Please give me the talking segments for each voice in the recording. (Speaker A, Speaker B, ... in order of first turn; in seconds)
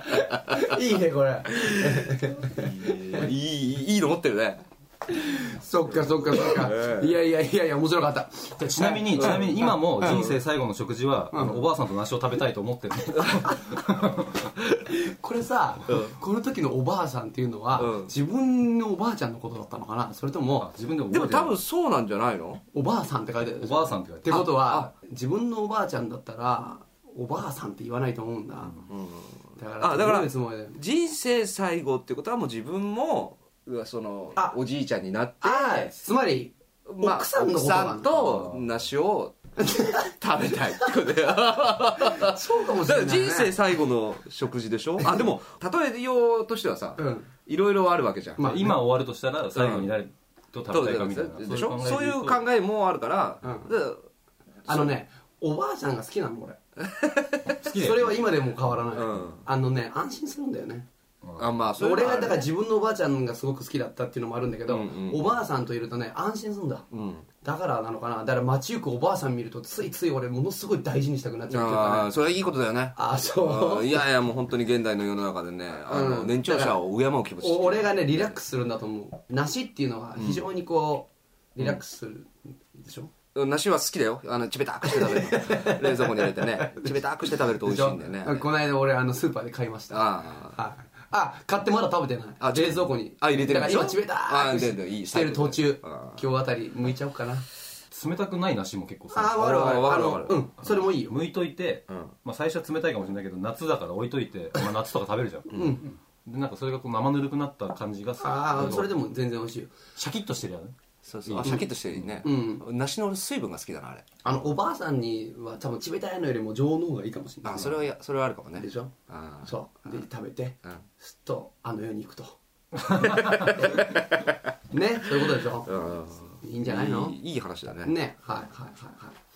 Speaker A: 0.2-3.3, 5.1-10.2, 11.3-11.6, 14.9-20.7, 22.7-28.7, 29.6-30.8, 35.4-38.4, 39.7-40.1, 42.0-43.5, 47.0-47.3, 48.4-48.7, 53.4-53.7, 54.7-56.6, 57.8-60.9, 61.8-66.9, 67.4-72.1, 73.0-74.1, 75.9-76.8, 77.4-83.1, 84.8-97.5, 99.1-101.2, 105.5-105.8, 108.2-109.8, 112.2-112.6, 114.2-117.9, 118.6-118.9, 119.4-122.4, 124.7-125.8, 126.4-127.2, 127.8-129.2
Speaker B: 1.6-4.7, 6.0-7.1, 9.2-9.4, 10.0-10.3, 15.9-16.1, 17.8-18.1, 21.1-22.6, 24.3-24.9, 28.9-36.0, 36.9-48.5, 49.5-49.9, 50.7-54.1, 54.6-55.0, 56.8-57.5, 58.9-59.4, 61.4-62.5, 64.7-65.3, 66.9-67.3, 71.5-78.3, 80.2-80.5, 83.3-88.5, 89.9-90.5, 92.4-96.2, 99.3-100.5, 105.5-105.8, 111.0-114.0, 117.4-119.5, 123.0-124.4, 125.6-128.0
Speaker C: 8.6-14.5, 20.6-21.6, 23.6-24.7, 38.3-38.8, 48.4-52.4, 57.6-58.5, 61.2-61.6, 97.9-99.7, 100.6-109.0, 110.0-112.2